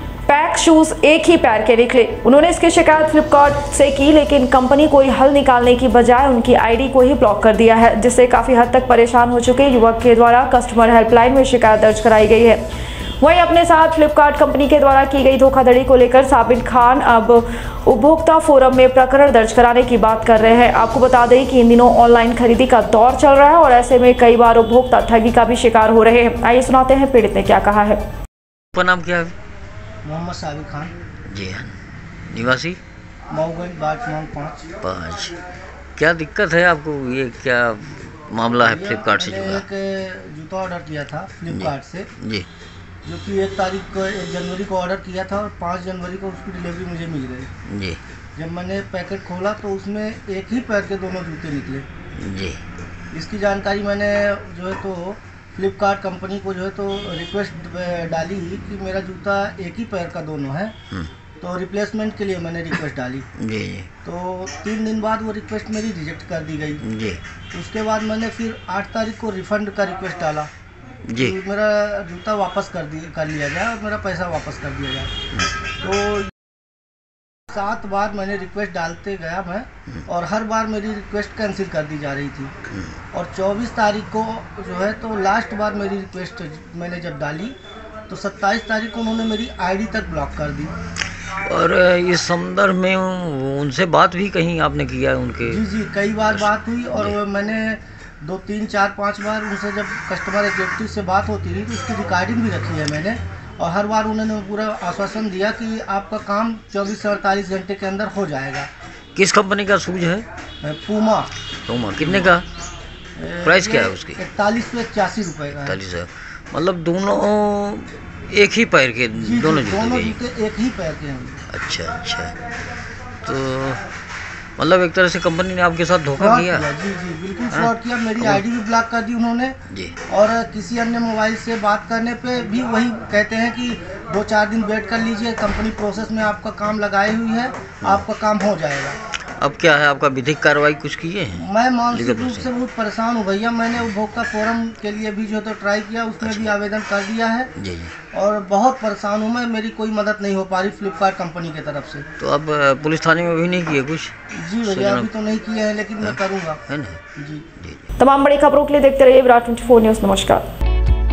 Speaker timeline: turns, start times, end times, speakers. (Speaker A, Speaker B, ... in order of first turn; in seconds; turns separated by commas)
Speaker A: 0.3-12.6, Speaker A: 13.2-28.0, Speaker B: 28.7-29.3, Speaker C: 30.0-30.9, Speaker B: 31.3-31.7, Speaker B: 32.3-32.8, Speaker C: 33.3-34.8, Speaker B: 34.8-35.4, Speaker B: 36.0-39.6, Speaker C: 38.6-42.1, Speaker B: 41.5-42.5, Speaker C: 43.0-47.5, Speaker B: 47.7-48.0, Speaker C: 48.4-51.9, Speaker B: 52.1-52.6, Speaker C: 53.1-60.7, Speaker C: 61.4-63.3, Speaker B: 63.4-63.9, Speaker C: 64.0-66.8, Speaker B: 66.8-67.2, Speaker C: 67.5-70.5, Speaker B: 71.1-71.4, Speaker C: 71.2-75.1, Speaker C: 75.8-76.3, Speaker C: 77.5-82.5, Speaker B: 82.7-83.0, Speaker C: 83.1-87.5, Speaker C: 88.1-90.7, Speaker B: 91.5-95.6, Speaker C: 95.5-108.7, Speaker B: 96.3-97.1, Speaker B: 109.1-110.2, Speaker C: 110.6-111.3, Speaker B: 111.7-112.5, Speaker C: 112.0-112.3, Speaker C: 113.2-115.8, Speaker B: 113.4-114.2, Speaker B: 115.5-120.2, Speaker C: 119.2-121.4, Speaker B: 121.5-122.3, Speaker B: 123.2-123.8, Speaker B: 124.6-126.7, Speaker C: 126.2-129.6, Speaker B: 127.5-128.4, Speaker B: 129.7-129.9, Speaker C: 130.1-139.0, Speaker B: 139.4-142.5, Speaker C: 141.3-147.5, Speaker B: 146.2-146.5, Speaker B: 147.6-147.9, Speaker C: 148.1-152.1, Speaker B: 152.2-155.1, Speaker C: 154.3-156.6, Speaker B: 156.0-157.0, Speaker C: 157.2-157.4, Speaker B: 157.6-157.9, Speaker A: 158.0-160.4